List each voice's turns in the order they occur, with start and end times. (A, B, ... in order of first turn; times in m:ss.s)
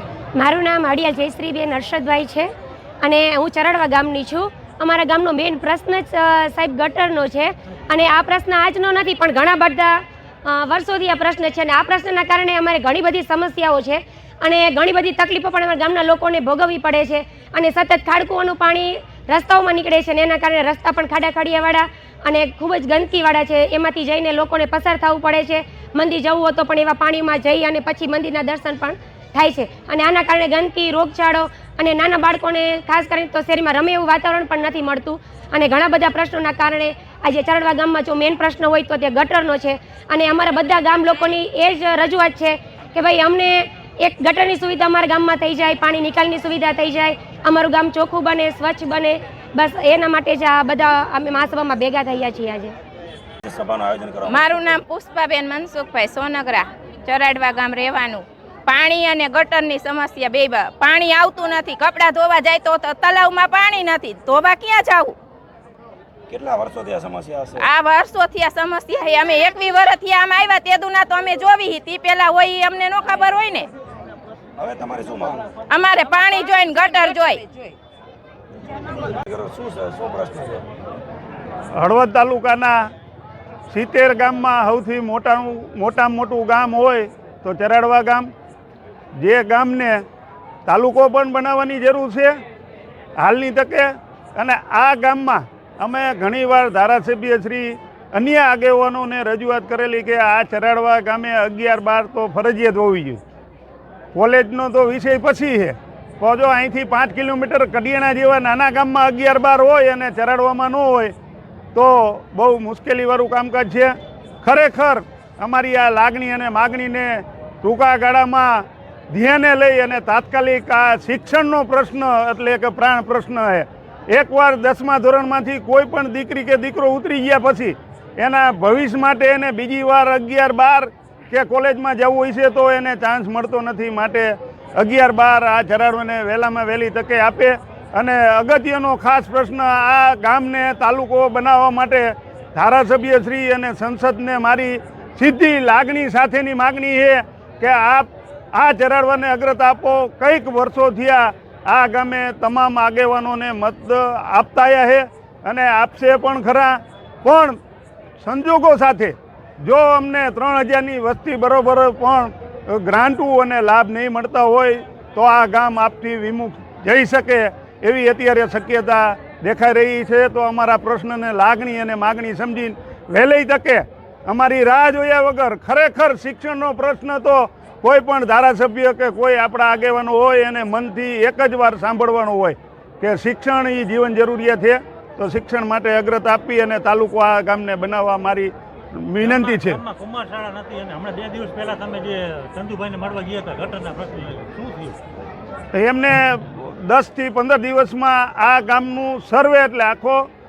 0:00.4-0:02.5 A
0:03.0-0:52.7 A
0:53.4-0:54.8 B
0:54.3-1:05.2 C
1:06.3-1:07.7 B
1:07.6-1:13.7 C
1:14.6-1:15.5 B
1:15.7-1:17.4 C
1:19.1-1:20.6 B
1:21.8-1:22.7 D
1:23.7-1:28.3 D
1:29.2-1:30.0 D
1:30.7-1:32.3 D
1:33.2-1:43.2 D
1:44.2-1:51.1 D
1:51.7-2:37.6 D
2:38.2-3:09.8 D
3:09.2-3:15.0 E
3:15.7-3:20.2 D